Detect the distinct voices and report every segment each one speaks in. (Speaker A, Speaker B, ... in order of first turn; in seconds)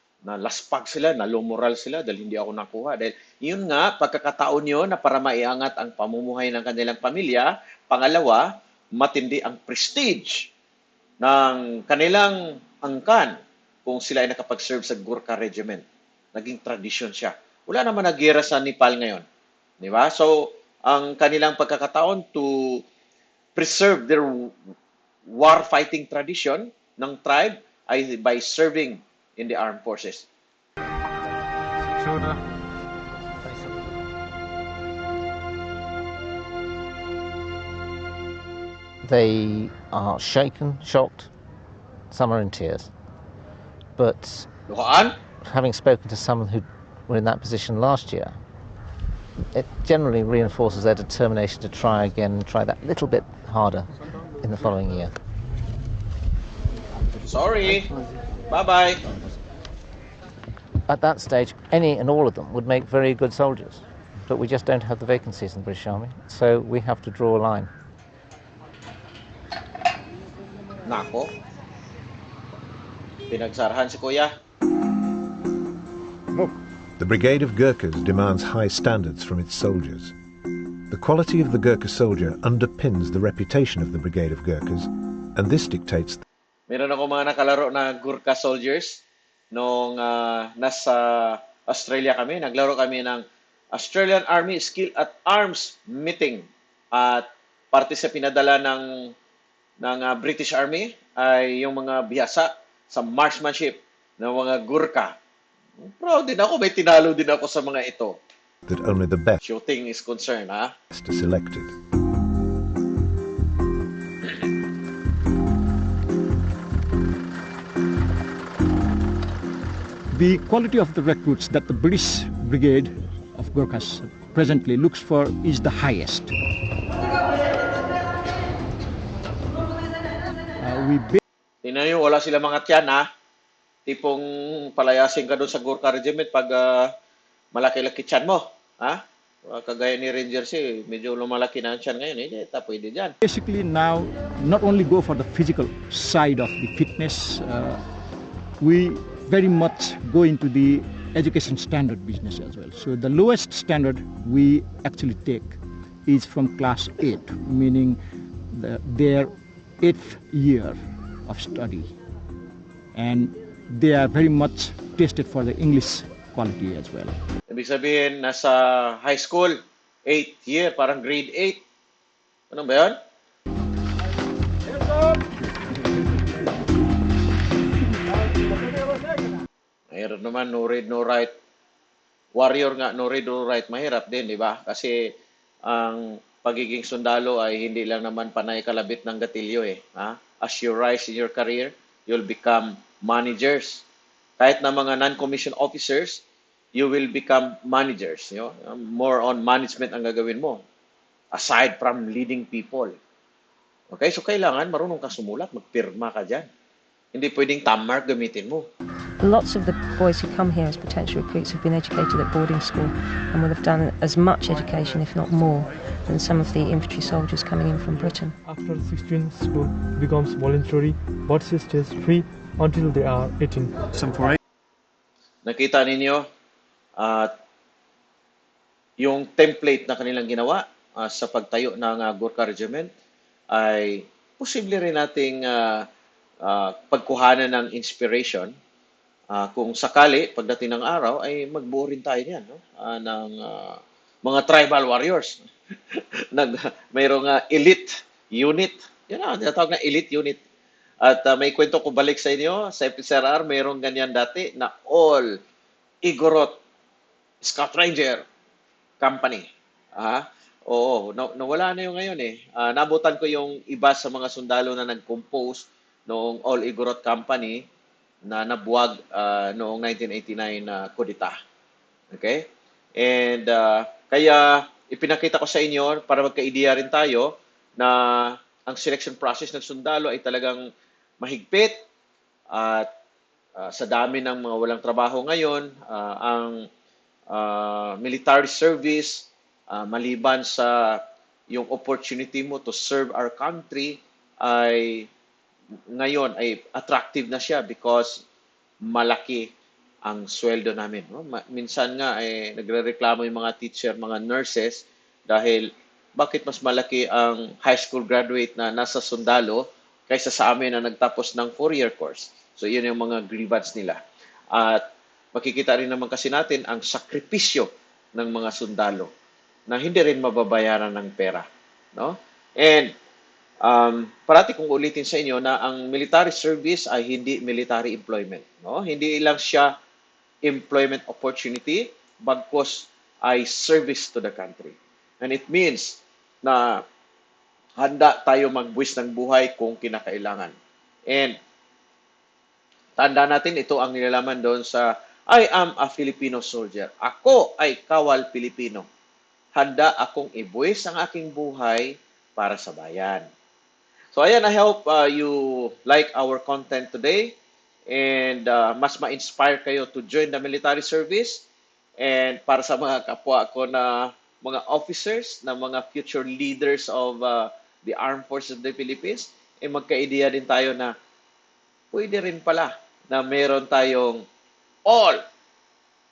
Speaker A: 0.2-10.5, 11.2-15.8, 16.4-19.2, 19.8-22.8, 23.6-24.6, 25.3-30.3, 44.7-45.1, 57.2-58.0, 58.5-59.0, 70.9-71.3, 73.3-74.3, 86.7-89.0, 89.5-98.9, 99.8-105.1, 105.8-108.2, 109.4-110.7, 131.6-133.1, 133.9-136.9, 137.5-143.2, 167.5-171.6, 172.5-173.0, 179.9-181.3, 182.4-185.1, 185.7-193.8, 194.4-196.2, 196.8-200.6, 201.3-203.0, 203.9-206.5, 207.1-208.7, 225.4-226.3, 227.0-227.3, 229.0-232.9, 233.5-235.9, 236.4-238.5, 239.3-250.4, 251.0-255.4, 256.1-256.6, 257.4-258.2, 259.0-267.6, 268.3-271.4, 272.1-272.4, 273.0-280.7, 281.2-281.8, 282.5-282.9, 283.6-286.6, 287.3-295.1, 295.9-298.2, 298.9-299.5, 300.1-314.0, 314.5-314.8, 315.4-319.1, 319.7-322.9, 323.6-329.7, 330.4-336.8, 337.8-340.5, 341.1-341.4, 343.0-348.9, 349.6-353.2, 354.1-357.3, 357.9-361.4, 362.0-370.9, 371.9-374.2, 374.9-375.2
Speaker B: 39.0-41.3, 42.1-42.9, 44.0-44.5, 45.5-48.4, 49.5-55.1, 60.9-67.7
Speaker C: 77.0-80.1, 80.9-86.2, 108.7-109.4, 110.9-111.8
Speaker D: 120.1-126.3, 130.6-131.2, 143.2-147.8, 148.6-158.0, 158.5-162.0, 162.9-167.2
Speaker E: 209.2-218.4
Speaker F: 218.4-223.9